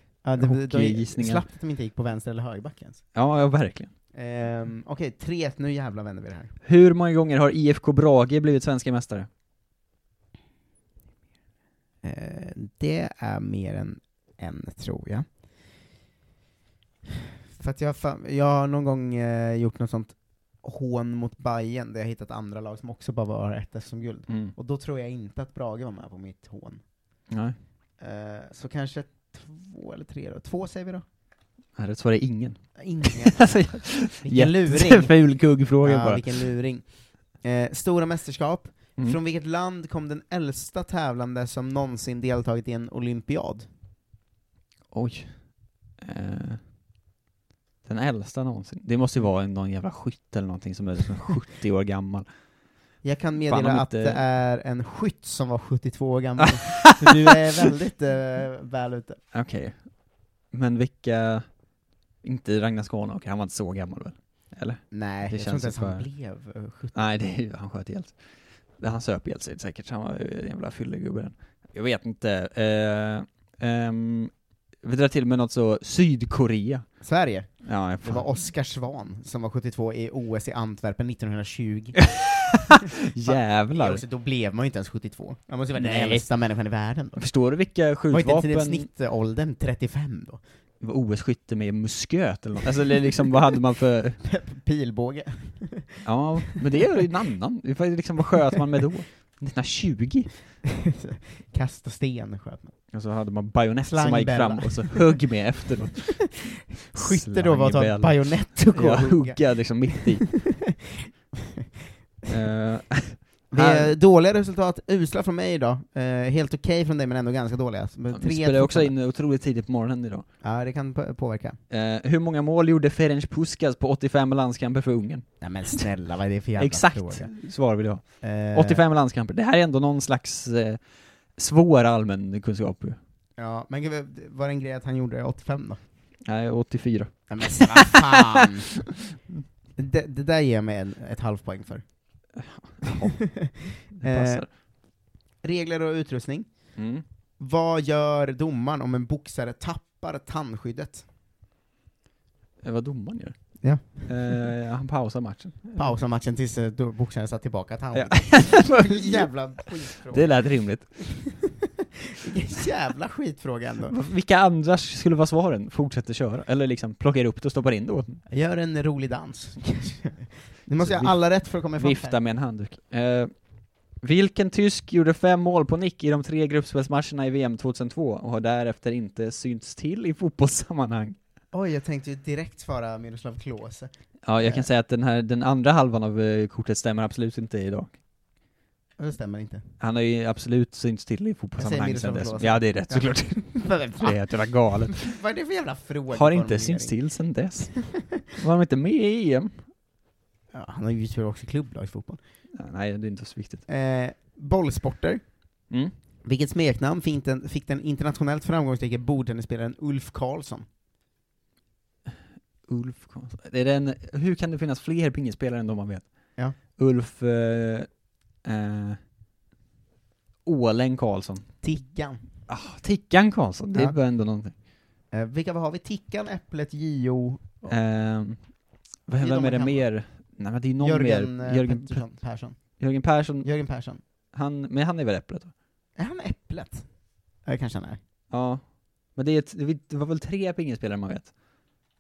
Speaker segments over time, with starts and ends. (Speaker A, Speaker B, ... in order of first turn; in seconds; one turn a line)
Speaker A: 0.2-3.0
Speaker B: 0.4-1.4
Speaker B: 3.1-3.9
Speaker A: 4.1-6.5
Speaker B: 6.6-9.3
Speaker A: 12.0-15.3
Speaker A: 17.6-26.8
Speaker B: 24.3-24.5
Speaker B: 27.3-27.6
Speaker A: 28.0-31.1
Speaker B: 31.8-36.5
Speaker A: 32.8-43.7
Speaker B: 44.9-46.6
Speaker B: 47.9-52.3
Speaker A: 53.0-59.2
Speaker B: 53.5-54.2
Speaker B: 56.9-57.1
Speaker B: 59.3-61.6
Speaker B: 62.2-66.1
Speaker A: 64.9-67.1
Speaker B: 66.9-68.2
Speaker B: 68.7-77.0
Speaker A: 77.0-82.1
Speaker B: 77.6-78.4
Speaker B: 82.2-84.0
Speaker A: 83.2-87.2
Speaker B: 85.8-86.3
Speaker B: 87.2-88.9
Speaker A: 88.1-90.4
Speaker B: 90.8-94.2
Speaker A: 94.2-96.0
Speaker B: 96.0-100.3
Speaker A: 100.9-102.8
Speaker B: 102.9-106.3
Speaker A: 103.8-105.4
Speaker A: 106.9-110.7
Speaker B: 106.9-110.4
Speaker B: 112.3-113.9
Speaker A: 113.5-118.9
Speaker B: 118.1-120.3
Speaker A: 120.4-121.6
Speaker B: 121.7-125.4
Speaker A: 125.4-127.3
Speaker B: 126.6-130.8
Speaker A: 128.2-128.8
Speaker B: 131.3-133.0
Speaker A: 133.4-135.8
Speaker B: 136.2-138.4
Speaker A: 137.3-138.7
Speaker A: 139.8-141.8
Speaker B: 142.4-143.3
Speaker A: 143.3-144.6
Speaker B: 144.0-144.5
Speaker A: 145.4-146.5
Speaker B: 146.8-147.0
Speaker A: 147.4-151.1
Speaker B: 152.6-156.0
Speaker A: 153.6-154.4
Speaker A: 155.8-160.9
Speaker B: 157.9-159.3
Speaker B: 160.1-161.1
Speaker A: 162.2-163.9
Speaker B: 163.9-168.2
Speaker A: 168.3-172.2
Speaker B: 170.8-181.2
Speaker A: 181.5-183.9
Speaker B: 184.2-188.0
Speaker A: 189.0-189.6
Speaker B: 189.8-195.2
Speaker A: 191.6-194.2
Speaker A: 195.0-197.0
Speaker B: 196.1-199.6
Speaker A: 200.5-202.2
Speaker B: 202.5-203.6
Speaker A: 203.7-205.3
Speaker A: 206.2-210.7
Speaker B: 212.7-217.9
Speaker B: 218.4-219.0
Speaker B: 220.4-221.5
Speaker A: 221.6-222.2
Speaker B: 222.5-224.5
Speaker A: 225.1-227.8
Speaker B: 227.7-232.1
Speaker A: 229.2-229.9
Speaker A: 230.8-232.8
Speaker B: 232.8-233.5
Speaker A: 233.4-234.0
Speaker B: 234.3-235.5
Speaker A: 236.0-236.9
Speaker A: 237.4-238.0
Speaker B: 238.3-241.3